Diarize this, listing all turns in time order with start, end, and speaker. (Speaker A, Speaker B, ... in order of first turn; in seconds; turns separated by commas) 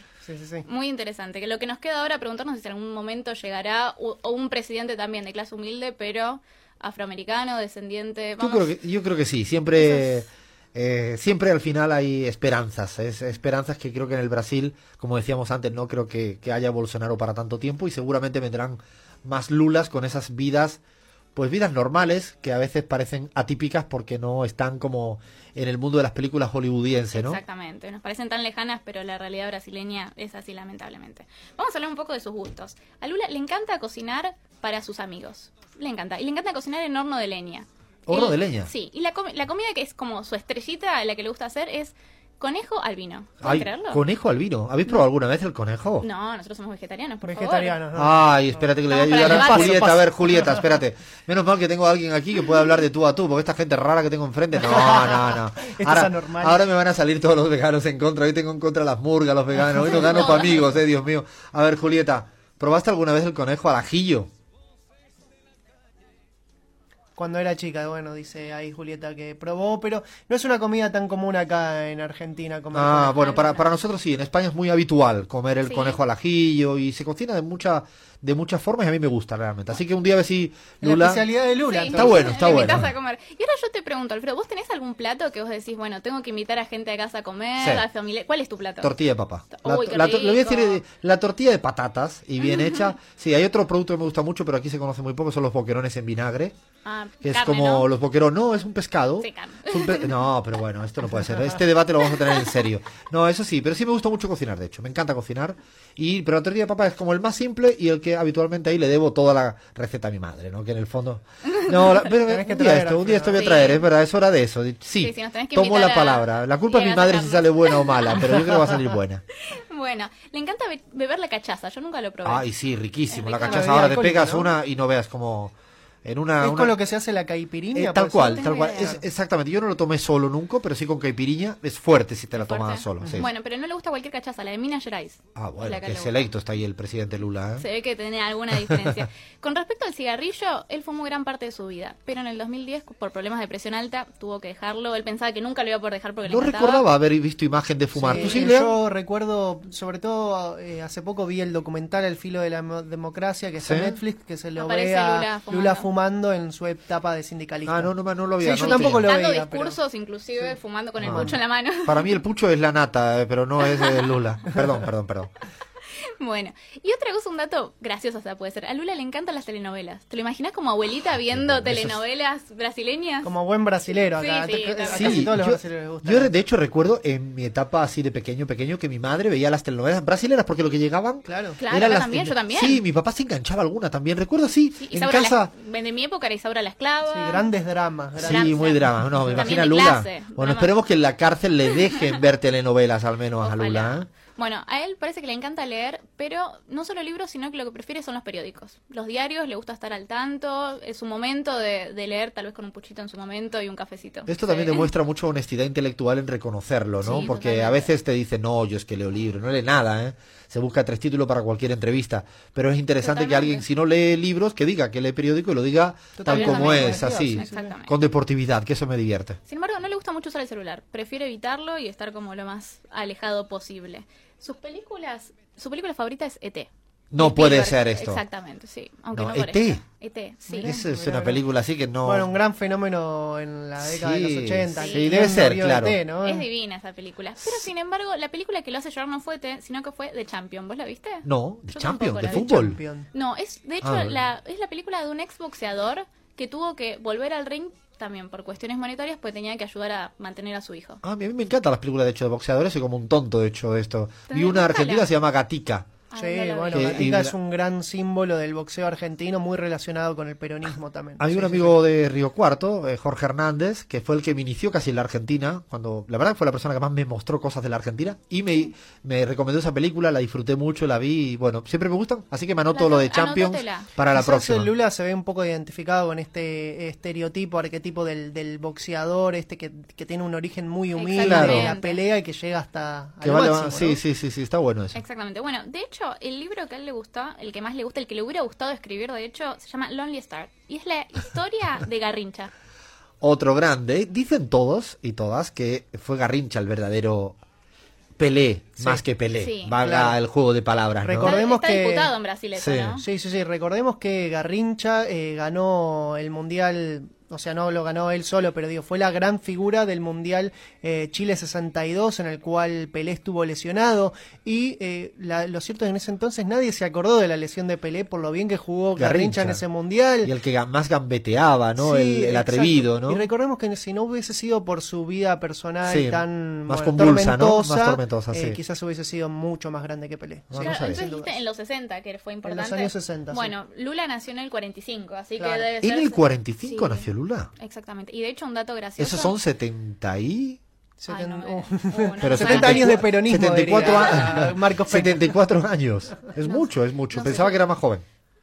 Speaker A: 0.2-0.6, Speaker B: 0.6-8.8, Speaker C: 8.4-20.8, Speaker B: 9.8-10.2, Speaker C: 21.3-27.4, Speaker B: 27.1-44.0, Speaker C: 38.1-38.7, Speaker C: 43.4-46.1, Speaker B: 46.0-47.8, Speaker A: 47.2-50.5, Speaker C: 47.9-64.3, Speaker B: 48.9-49.9, Speaker A: 54.7-56.6, Speaker A: 59.8-60.4, Speaker B: 60.0-60.6, Speaker A: 67.2-73.6, Speaker C: 72.7-81.2, Speaker B: 75.6-76.0, Speaker A: 80.8-82.8, Speaker B: 81.6-88.9, Speaker C: 81.9-82.9, Speaker C: 87.6-87.8, Speaker C: 88.8-96.5, Speaker B: 89.5-90.8, Speaker B: 92.4-92.9, Speaker B: 96.8-97.9, Speaker C: 97.2-119.2, Speaker B: 99.2-100.2, Speaker A: 112.1-113.6, Speaker B: 113.3-113.8, Speaker B: 115.0-118.4, Speaker B: 119.4-122.5, Speaker C: 122.2-126.7, Speaker B: 123.1-123.8, Speaker A: 123.4-124.5, Speaker A: 126.4-128.9, Speaker C: 127.7-133.3, Speaker B: 128.2-129.0, Speaker B: 132.3-136.3, Speaker C: 135.3-137.6, Speaker B: 137.6-146.9, Speaker C: 146.3-148.7, Speaker A: 147.9-159.8, Speaker B: 148.2-148.4, Speaker C: 153.6-154.0, Speaker B: 154.6-155.9, Speaker C: 157.7-159.1, Speaker B: 158.5-162.2, Speaker C: 161.0-165.3, Speaker B: 163.8-164.0, Speaker B: 166.2-173.3, Speaker C: 171.3-172.0, Speaker A: 173.2-176.3, Speaker B: 174.1-175.3, Speaker C: 174.9-185.5, Speaker A: 181.2-181.6, Speaker B: 181.6-182.8, Speaker B: 184.8-187.5, Speaker A: 187.1-188.5, Speaker B: 188.2-190.7, Speaker C: 188.2-194.1, Speaker B: 193.4-204.9, Speaker C: 204.3-219.4, Speaker B: 207.0-207.9, Speaker B: 213.0-213.7, Speaker A: 216.2-217.7, Speaker B: 216.2-217.9, Speaker B: 219.4-230.8, Speaker C: 227.1-228.2, Speaker C: 229.1-229.8, Speaker A: 230.5-231.4, Speaker C: 230.6-232.3, Speaker A: 232.0-236.5, Speaker C: 233.8-236.0, Speaker B: 234.8-235.2, Speaker B: 236.2-242.5, Speaker C: 241.2-242.8, Speaker A: 242.2-243.1, Speaker B: 243.1-251.0, Speaker C: 243.8-244.2, Speaker C: 251.0-255.9, Speaker B: 254.3-255.1, Speaker B: 256.1-257.1, Speaker A: 256.1-261.8, Speaker C: 256.7-257.3, Speaker C: 261.2-274.7, Speaker B: 272.7-273.9, Speaker A: 274.1-284.0, Speaker B: 280.9-282.0, Speaker C: 281.2-281.7, Speaker C: 283.2-285.0, Speaker B: 284.9-292.5, Speaker C: 293.2-297.4, Speaker C: 298.2-301.4, Speaker B: 299.4-299.8, Speaker A: 299.8-300.2, Speaker A: 301.0-302.1, Speaker B: 301.2-303.0, Speaker C: 302.5-303.0, Speaker A: 303.0-320.3, Speaker C: 318.9-319.6, Speaker C: 320.2-323.3, Speaker A: 321.8-331.4, Speaker C: 325.8-328.6, Speaker C: 330.5-331.0, Speaker B: 330.6-339.4, Speaker A: 332.4-333.5, Speaker A: 335.4-335.7, Speaker C: 335.8-337.5, Speaker C: 339.0-340.6, Speaker A: 341.0-345.4, Speaker B: 341.1-343.1, Speaker C: 342.2-348.0, Speaker B: 343.7-344.3, Speaker B: 346.4-347.6